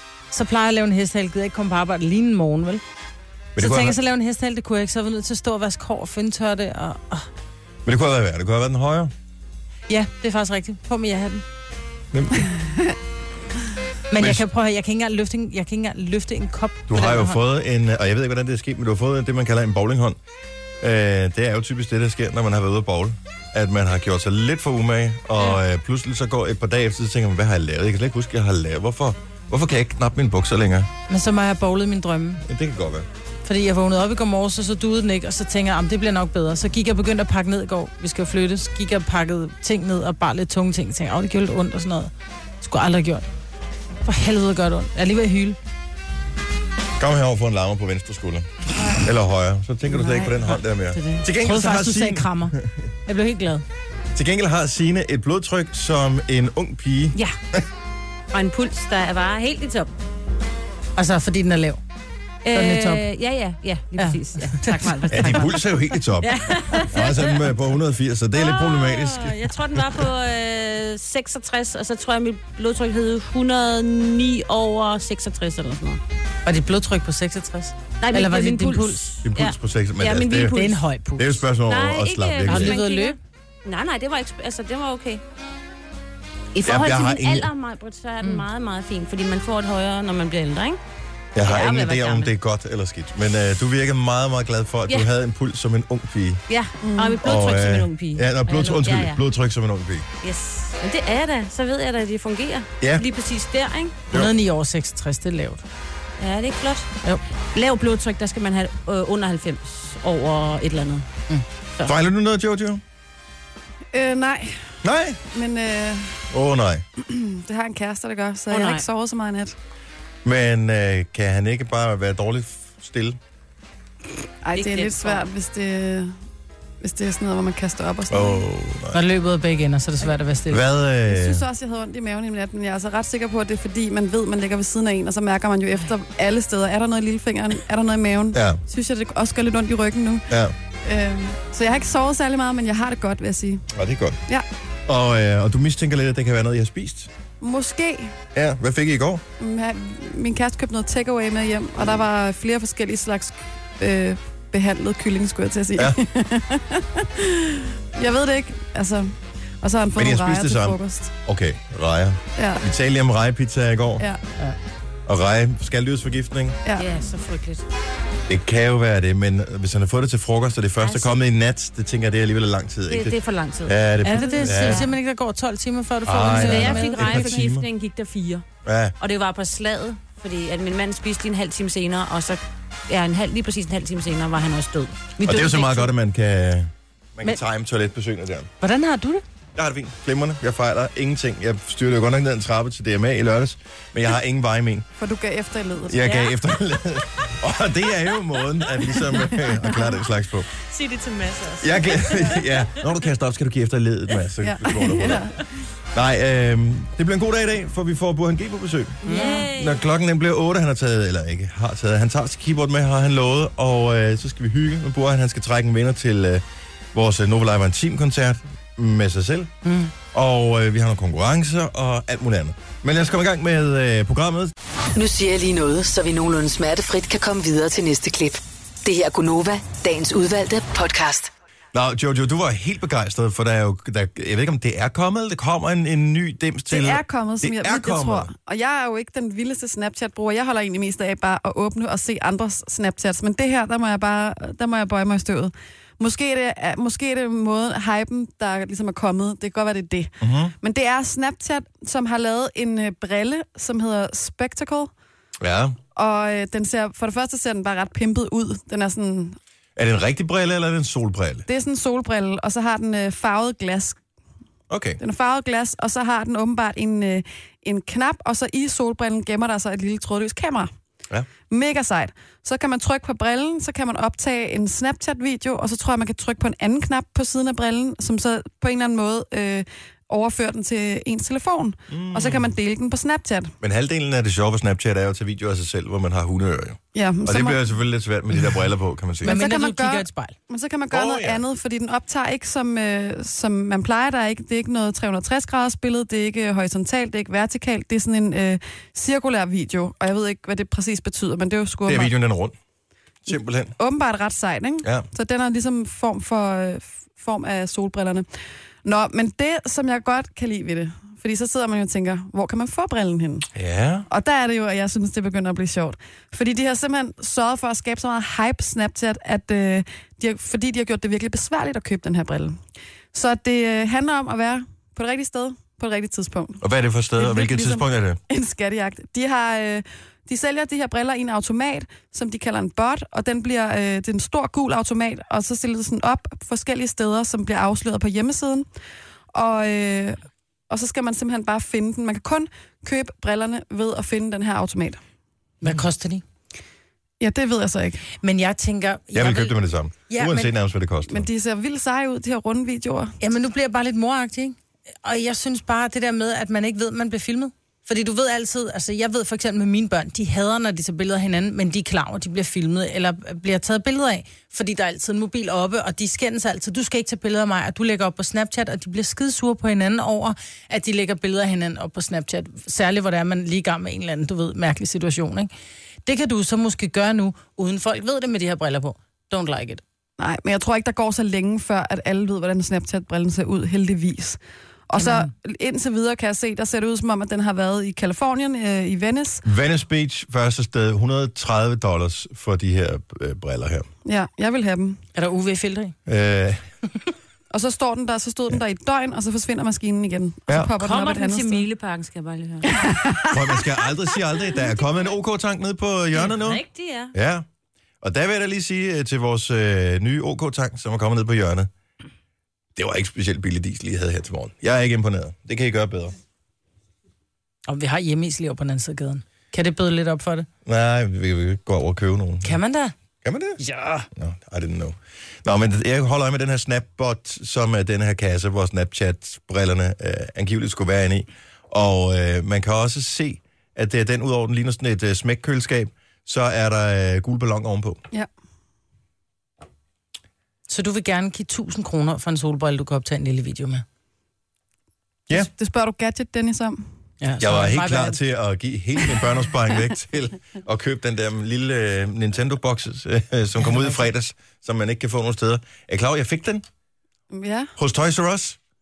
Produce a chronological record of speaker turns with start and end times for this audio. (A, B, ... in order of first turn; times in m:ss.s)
0:00.3-0:02.8 A
0:03.6-0:04.0 B
0:03.6-0:07.3 A
0:07.8-0:09.1 B
0:09.9-0:11.4 A
0:12.1-0:12.5 B
0:14.1-0:17.4 A
0:14.1-0:14.4 B
0:16.9-0:20.2 B
0:20.8-0:30.9 B
0:31.1-0:32.4 A
0:32.4-0:33.1 B
0:33.4-0:42.1 A
0:42.6-0:43.2 A
0:44.0-0:45.6 A
0:47.0-0:52.9 B
0:49.9-0:52.5 A
0:53.0-0:53.6 A
0:54.1-0:57.6 B
0:58.3-0:59.9 C
1:01.0-1:01.8 A
1:02.4-1:05.6 C
1:02.5-1:03.0 A
1:04.0-1:05.5 A
1:05.1-1:10.0 B
1:06.2-1:07.5 C
1:08.3-1:16.0 C
1:16.4-1:19.0 A
1:18.0-1:20.8 C
1:19.2-1:20.6 B
1:20.5-1:21.4 A
1:21.2-1:22.8 B
1:21.7-1:25.2 C
1:22.4-1:23.2 A
1:26.5-1:30.8 C
1:26.6-1:27.5 B
1:31.3-1:36.4 B
1:31.4-1:32.3 C
1:36.5-1:39.2 C
1:36.8-1:37.2 D
1:37.2-1:40.0 B
1:40.2-1:44.0 C
1:44.1-1:45.6 A
1:46.2-1:46.9 C
1:47.5-1:51.0 C
1:51.8-1:52.8 B
1:53.9-1:54.7 D
1:54.8-1:55.2 B
1:55.3-1:56.3 D
1:56.3-1:56.8 B
1:57.0-1:59.5 D
1:58.5-1:58.8 C
2:00.2-2:03.2 B
2:04.4-2:06.1 D
2:04.5-2:05.2 C
2:06.8-2:08.4 D
2:08.1-2:09.0 B
2:08.9-2:10.6 A
2:10.5-2:11.4 B
2:11.0-2:20.3 D
2:18.3-2:18.6 B
2:20.3-2:20.5 B
2:20.8-2:23.6 D
2:23.7-2:24.2 B
2:24.9-2:27.1 B
2:27.4-2:28.2 D
2:28.3-2:29.2 B
2:29.4-2:41.1 D
2:40.0-2:44.1 B
2:42.4-2:42.6 D
2:45.0-2:46.6 B
2:46.8-2:47.7 C
2:48.3-2:54.8 B
2:50.8-2:51.2 C
2:52.9-2:54.9 C
2:54.0-2:57.4 A
2:56.0-2:57.6 B
2:56.3-2:58.4 C
2:58.6-2:58.9 B
2:59.0-3:05.9 C
3:05.2-3:08.5 B
3:08.6-3:09.2 A
3:09.5-3:14.8 B
3:15.0-3:16.0 D
3:15.9-3:20.5 B
3:19.6-3:19.9 D
3:20.6-3:22.4 C
3:21.6-3:25.3 B
3:24.4-3:25.4 D
3:25.9-3:39.5 B
3:29.0-3:29.8 C
3:29.1-3:29.4 D
3:29.1-3:29.4 A
3:39.6-3:39.9 A
3:40.1-3:44.5 B
3:44.9-3:51.3 E
3:51.7-3:58.3 B
3:56.7-4:14.9 D
4:10.2-4:10.5 B
4:15.4-4:15.8 B
4:15.9-4:19.4 D
4:19.8-4:21.4 B
4:21.5-4:24.0 D
4:24.7-4:25.0 B
4:25.0-4:30.7 D
4:31.5-4:43.5 D
4:41.9-4:42.5 B
4:43.6-4:49.3 B
4:46.9-4:47.6 D
4:49.2-5:02.1 D
4:49.2-4:50.3 A
4:50.9-4:51.4 B
5:01.9-5:02.5 B
5:03.2-5:03.7 B
5:03.8-5:08.3 D
5:08.8-5:13.5 D
5:13.5-5:14.1 B
5:14.1-5:22.6 D
5:23.1-5:26.6 D
5:26.6-5:28.2 B
5:27.2-5:27.7 D
5:28.3-5:38.7 D
5:39.3-5:45.0 D
5:45.6-5:46.2 A
5:47.2-5:48.0 D
5:48.2-5:49.6 A
5:49.1-5:51.3 B
5:50.1-5:50.5 A
5:51.1-5:53.1 D
5:53.2-6:15.5 A
6:16.0-6:19.8 A
6:20.2-6:29.4 D
6:25.0-6:25.2 C
6:29.4-6:33.9 B
6:34.0-6:35.0 D
6:35.1-6:36.0 A
6:36.0-6:36.6 B
6:37.5-6:41.6 D
6:40.8-6:42.9 C
6:42.7-6:43.4 D
6:43.3-6:46.6 B
6:46.1-6:47.1 C
6:47.1-6:47.4 B
6:48.0-6:51.7 B
6:52.8-6:56.1 B
6:57.7-7:00.5 A
7:00.6-7:02.6 B
7:02.4-7:02.9 A
7:03.2-7:03.6 B
7:03.6-7:04.1 A
7:04.1-7:18.0 B
7:20.7-7:23.8 A
7:25.3-7:26.8 D
7:27.2-7:28.2 A
7:27.4-7:36.6 B
7:37.3-7:37.7 D
7:37.8-7:38.6 B